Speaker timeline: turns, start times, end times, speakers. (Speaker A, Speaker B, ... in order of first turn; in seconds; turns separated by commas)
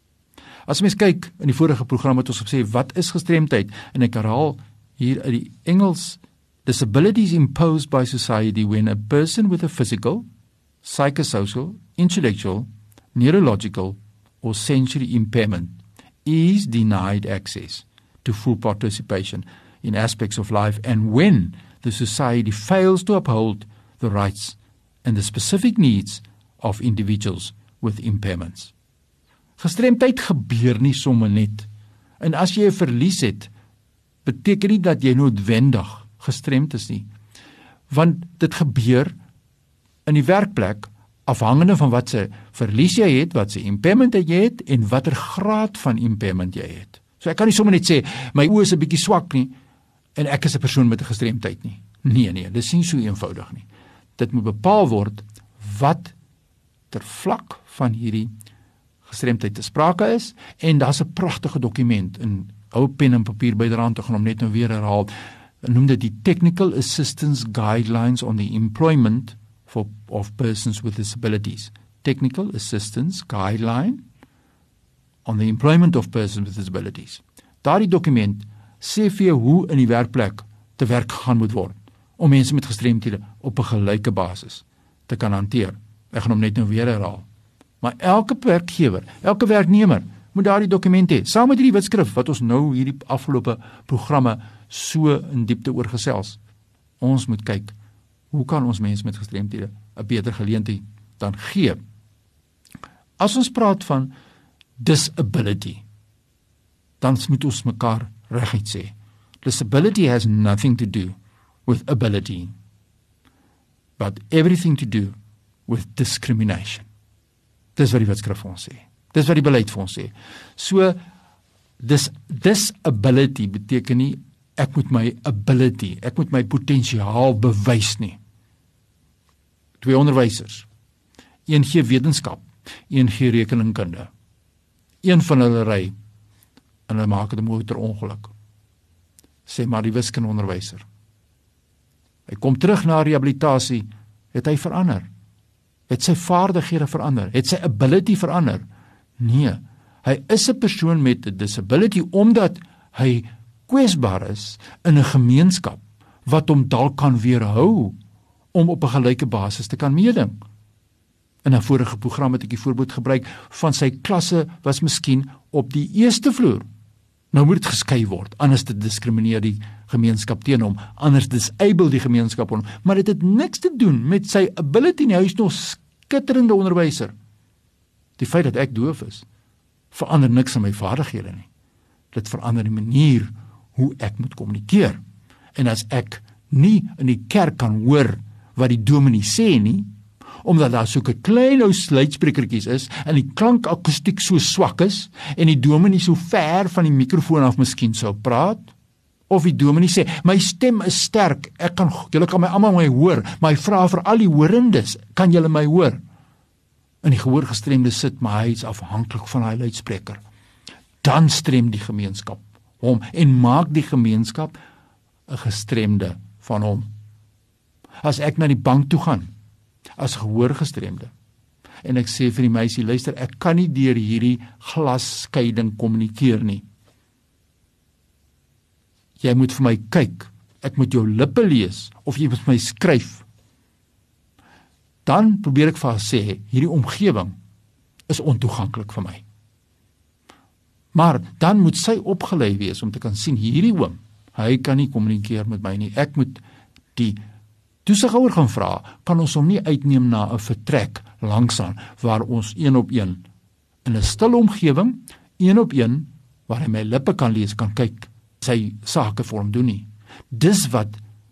Speaker A: 0.7-10.2, Speaker A: 10.8-28.7, Speaker A: 29.6-31.7, Speaker A: 32.2-33.5, Speaker A: 34.2-37.1, Speaker A: 37.9-39.1, Speaker A: 40.0-49.5, Speaker A: 50.1-56.1, Speaker A: 56.9-58.3, Speaker A: 59.0-65.1, Speaker A: 65.6-74.0, Speaker A: 75.2-87.2, Speaker A: 87.8-96.4, Speaker A: 97.0-97.7, Speaker A: 98.3-101.8, Speaker A: 103.2-104.1, Speaker A: 104.8-105.8, Speaker A: 107.0-112.5, Speaker A: 114.0-115.1, Speaker A: 115.7-116.9, Speaker A: 117.8-121.0, Speaker A: 121.8-128.2, Speaker A: 129.8-130.7, Speaker A: 131.5-134.1, Speaker A: 135.0-135.9, Speaker A: 136.9-138.3, Speaker A: 139.5-140.8, Speaker A: 142.3-145.1, Speaker A: 145.9-148.6, Speaker A: 149.2-157.9, Speaker A: 158.5-160.4, Speaker A: 161.4-166.6, Speaker A: 167.3-177.1, Speaker A: 178.2-179.2, Speaker A: 179.9-181.5, Speaker A: 182.1-185.0, Speaker A: 185.5-189.9, Speaker A: 190.4-198.7, Speaker A: 199.3-206.0, Speaker A: 207.0-210.2, Speaker A: 211.0-214.5, Speaker A: 215.3-216.9, Speaker A: 218.0-219.3, Speaker A: 220.0-221.1, Speaker A: 221.8-226.6, Speaker A: 229.2-233.2, Speaker A: 235.0-237.3, Speaker A: 238.1-239.2, Speaker A: 240.9-246.4, Speaker A: 247.8-253.2, Speaker A: 253.8-261.0